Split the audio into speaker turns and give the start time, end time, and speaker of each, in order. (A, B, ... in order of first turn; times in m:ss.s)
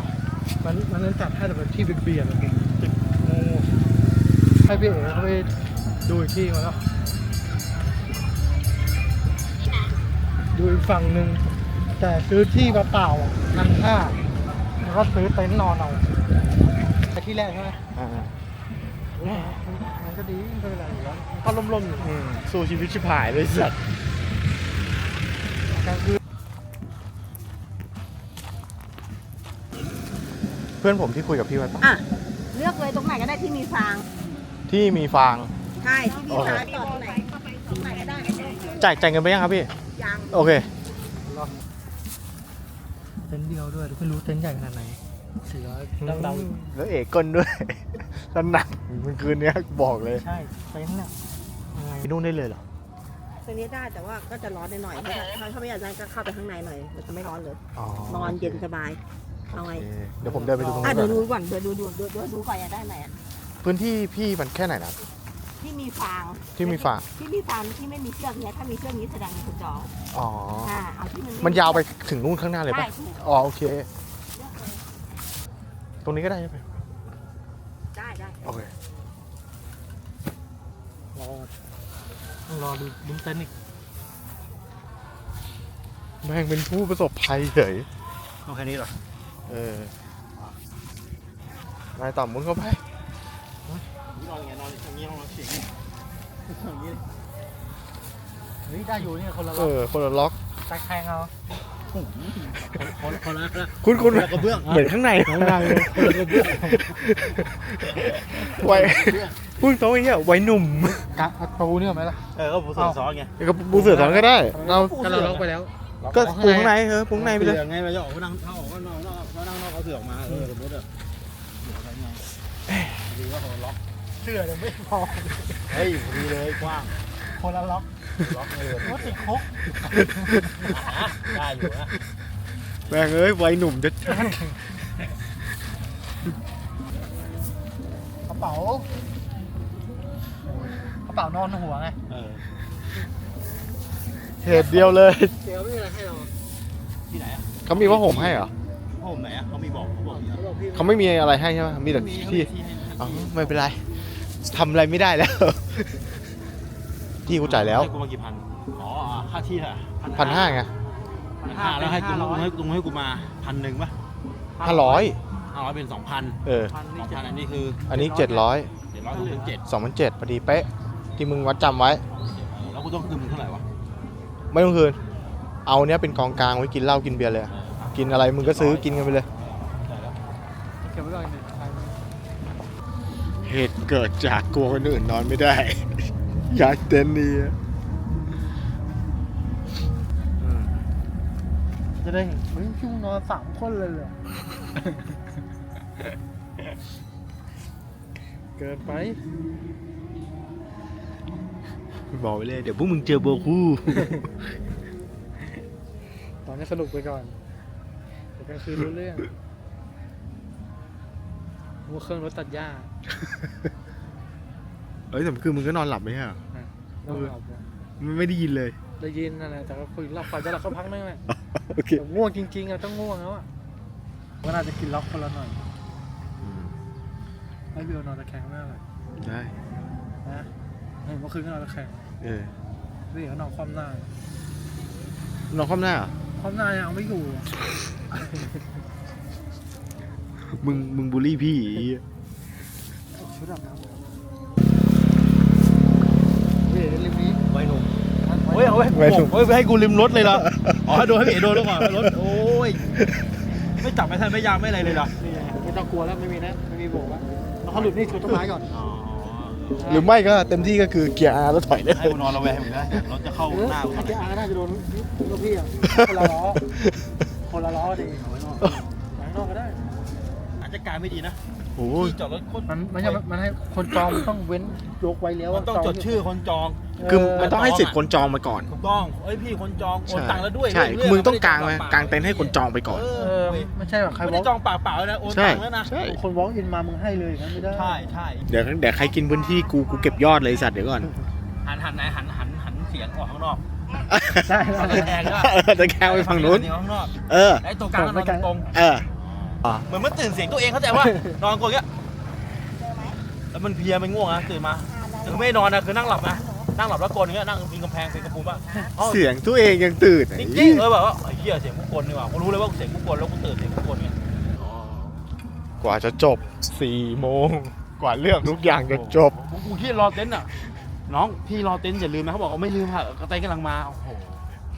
0:00.6-0:03.7 A
0:04.6-0:05.5 A
0:06.0-0:06.8 A
0:10.5-0:11.4 A
0:12.0-0:14.2 A
0:14.8-0:16.0 A
0:17.1-0:17.8 A
0:18.0-0:18.3 B
0:19.2-0:22.1 A
0:19.2-0:19.6 B
0:22.0-0:23.8 B
0:25.8-0:26.2 A
0:30.8-0:31.9 B
0:31.8-0:34.0 C
0:34.7-0:35.5 B
0:35.8-0:38.8 C
0:36.3-0:36.7 B
0:38.8-0:39.7 B
0:40.0-0:40.4 C
0:40.3-0:40.7 B
0:41.2-0:41.6 A
0:43.3-0:46.6 A
0:46.0-0:50.2 B
0:50.2-0:51.1 A
0:51.7-0:52.1 A
0:52.0-0:52.6 B
0:53.4-0:59.0 C
0:57.8-0:58.6 B
0:59.5-0:59.9 C
0:59.5-1:01.2 B
1:00.2-1:01.2 A
1:00.8-1:03.1 C
1:03.6-1:05.0 B
1:05.6-1:09.9 C
1:06.6-1:07.1 B
1:10.1-1:10.7 B
1:10.6-1:11.9 C
1:11.4-1:13.9 B
1:12.7-1:13.2 C
1:14.4-1:14.7 C
1:16.0-1:16.7 B
1:17.9-1:18.5 C
1:18.4-1:18.7 B
1:21.2-1:21.5 A
1:22.5-1:23.5 A
1:26.2-1:27.9 B
1:28.4-1:29.0 D
1:29.5-1:29.9 B
1:32.0-1:32.8 B
1:34.1-1:35.7 D
1:36.5-1:37.0 D
1:38.7-1:39.7 A
1:39.5-1:40.4 B
1:40.7-1:41.3 A
1:41.9-1:44.9 D
1:43.8-1:46.2 B
1:45.3-1:46.8 A
1:46.0-1:47.0 D
1:46.9-1:51.1 B
1:48.0-1:49.5 D
1:51.2-1:53.0 A
1:52.4-1:53.3 D
1:53.4-1:54.9 B
1:53.7-1:55.7 A
1:54.6-1:55.5 D
1:56.0-2:00.9 D
1:56.1-1:57.6 B
2:01.6-2:02.2 D
2:02.7-2:03.0 B
2:03.1-2:03.8 D
2:04.2-2:05.6 A
2:05.7-2:07.0 D
2:07.3-2:07.9 A
2:08.2-2:09.2 D
2:08.8-2:10.3 A
2:10.7-2:12.0 D
2:12.8-2:13.1 D
2:12.9-2:14.4 B
2:18.3-2:18.9 A
2:21.1-2:22.0 A
2:22.1-2:22.4 D
2:24.4-2:25.4 B
2:24.5-2:26.3 A
2:27.1-2:30.4 D
2:27.7-2:28.5 B
2:30.1-2:31.1 A
2:30.7-2:36.2 B
2:31.8-2:33.6 D
2:37.2-2:37.9 B
2:37.3-2:40.6 D
2:40.1-2:40.7 B
2:41.4-2:42.5 A
2:41.4-2:43.9 D
2:44.6-2:45.1 A
2:44.6-2:45.2 B
2:45.5-2:46.4 D
2:46.4-2:46.7 B
2:46.7-2:47.4 A
2:47.0-2:47.8 D
2:47.9-2:48.5 A
2:47.9-2:48.7 B
2:48.9-2:49.6 D
2:49.1-2:49.5 A
2:49.7-2:52.0 B
2:52.1-2:53.6 D
2:54.5-2:55.0 B
2:55.7-2:59.3 B
2:57.5-3:00.2 D
3:00.8-3:02.0 A
3:03.4-3:07.6 B
3:10.4-3:10.7 B
3:12.0-3:14.2 A
3:18.6-3:19.2 A
3:22.1-3:24.3 B
3:26.4-3:27.4 A
3:28.4-3:29.3 A
3:31.9-3:32.9 A
3:35.1-3:36.4 B
3:36.5-3:37.6 A
3:37.1-3:37.3 B
3:38.0-3:38.8 B
3:39.0-3:41.2 A
3:41.3-3:42.0 B
3:42.0-3:43.5 A
3:44.4-3:45.7 A
3:46.4-3:46.8 B
3:47.7-3:48.8 A
3:49.2-3:49.5 B
3:50.2-3:50.5 A
3:51.0-3:52.0 A
3:52.2-3:52.5 B
3:53.1-3:54.1 A
3:55.5-3:56.2 B
3:56.4-3:57.5 A
4:00.4-4:02.0 B
4:03.2-4:04.0 A
4:06.6-4:07.4 A
4:07.5-4:07.9 D
4:08.2-4:08.8 A
4:08.5-4:13.0 D
4:08.9-4:09.4 B
4:10.2-4:12.1 B
4:13.0-4:13.3 B
4:13.8-4:15.2 D
4:15.2-4:18.7 A
4:17.7-4:18.0 D
4:18.7-4:20.1 D
4:19.8-4:20.1 A
4:19.9-4:22.7 B
4:21.9-4:24.3 D
4:23.5-4:26.6 A
4:25.9-4:27.1 B
4:27.5-4:28.2 A
4:28.1-4:28.8 D
4:29.2-4:29.8 A
4:30.6-4:33.2 D
4:31.8-4:32.2 B
4:32.7-4:36.2 A
4:35.5-4:38.0 D
4:37.0-4:37.5 A
4:37.0-4:38.7 B
4:38.7-4:45.9 D
4:40.1-4:43.1 B
4:43.1-4:44.5 A
4:45.2-4:46.2 B
4:46.0-4:48.0 A
4:47.7-4:48.4 D
4:48.5-4:51.1 B
4:51.6-4:53.6 D
4:54.1-4:56.7 B
4:54.4-4:55.1 A
4:54.7-5:01.9 D
4:57.3-4:57.6 B
4:58.0-4:58.5 A
4:58.7-4:59.1 B
5:02.8-5:03.2 C
5:03.5-5:09.2 D
5:04.9-5:06.7 C
5:08.1-5:08.9 C
5:09.0-5:10.9 B
5:10.4-5:15.2 D
5:15.8-5:19.4 B
5:18.9-5:20.5 D
5:21.1-5:24.4 D